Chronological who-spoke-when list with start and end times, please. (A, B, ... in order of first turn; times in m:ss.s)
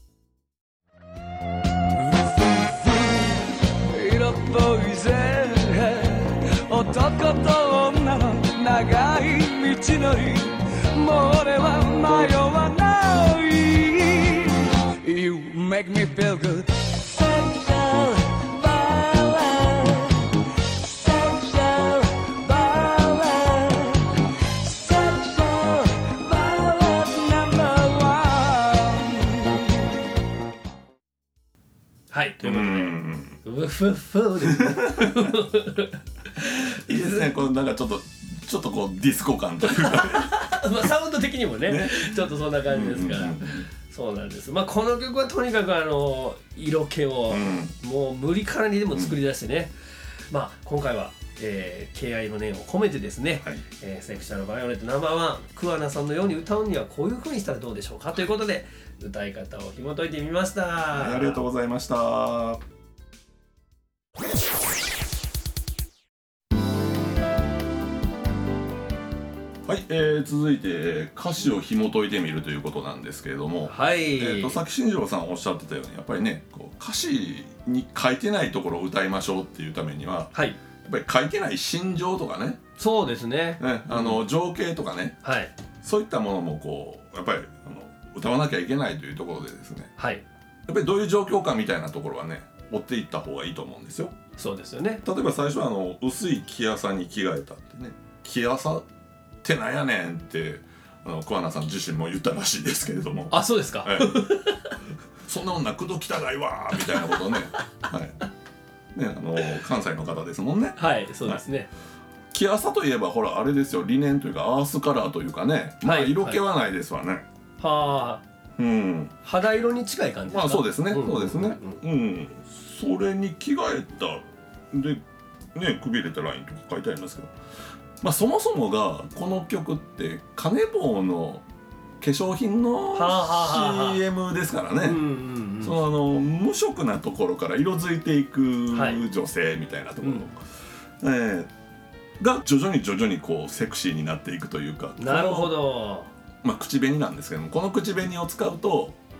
0:02.0-0:29.7 A
0:32.1-0:37.2 B
0:32.4-0:33.4 C
0:34.5-0:35.3 C
0:36.7-0:40.4 C
0:39.6-0:49.7 B
0:41.6-0:43.7 C
0:47.3-0:47.7 C
0:50.3-1:01.4 B
1:00.9-1:02.6 C
1:09.6-1:22.6 C
1:13.6-1:14.6 B
1:22.8-1:24.2 B
1:23.6-1:25.2 C
1:25.2-1:25.5 B
1:25.8-1:29.9 C
1:30.0-1:30.2 B
1:30.6-1:34.1 C
1:34.4-1:35.0 B
1:35.0-1:38.9 C
1:39.4-1:44.2 C
1:43.3-1:44.7 B
1:45.2-1:48.2 C
1:48.9-1:51.4 C
1:50.8-1:51.7 B
1:52.3-1:57.2 C
1:55.8-1:56.4 B
1:57.6-1:58.2 B
1:58.6-1:59.2 C
1:59.2-2:01.8 B
2:00.3-2:05.0 C
2:05.5-2:07.3 C
2:08.0-2:11.4 C
2:12.0-2:15.0 C
2:12.9-2:14.0 B
2:14.8-2:15.8 B
2:15.6-2:20.4 C
2:18.7-2:19.0 B
2:21.0-2:21.5 C
2:22.2-2:25.6 C
2:25.0-2:26.1 B
2:26.4-2:29.0 C